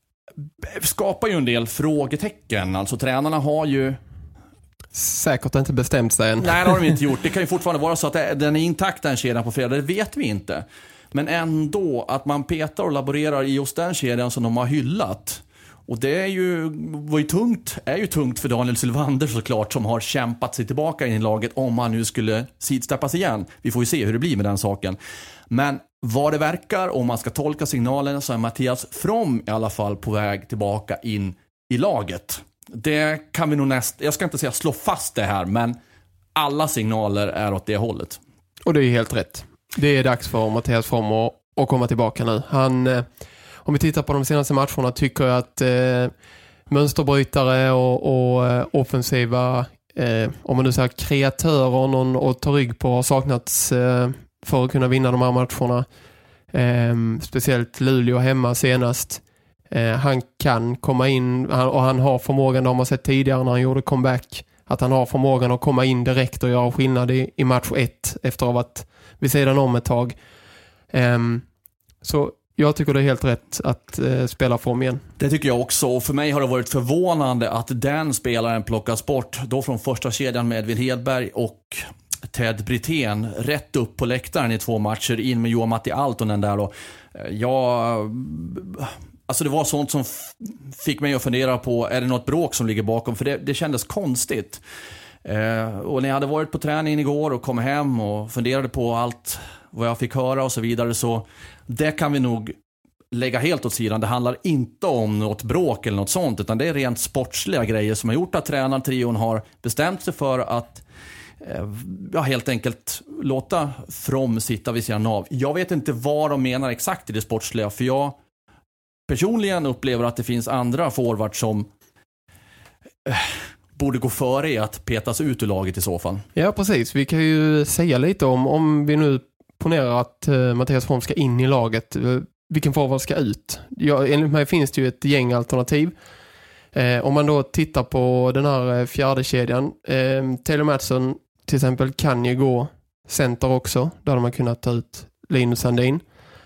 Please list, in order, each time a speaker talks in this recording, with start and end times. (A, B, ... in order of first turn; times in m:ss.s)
0:00.6-0:04.0 A
0:04.9-0:06.7 B
0:06.4-0:25.0 A
0:25.5-0:35.8 A
0:36.4-0:38.2 A
0:38.6-0:43.0 B
0:43.6-0:46.1 B
0:46.7-0:55.8 B
0:56.5-1:10.2 B
1:10.9-1:11.4 B
1:12.0-1:15.0 B
1:15.2-1:34.6 A
1:35.2-1:42.6 A
1:43.1-1:50.8 A
1:51.4-1:58.2 A
1:59.1-2:01.7 A
2:03.0-2:06.2 A
2:06.3-2:15.9 B
2:16.7-2:26.0 B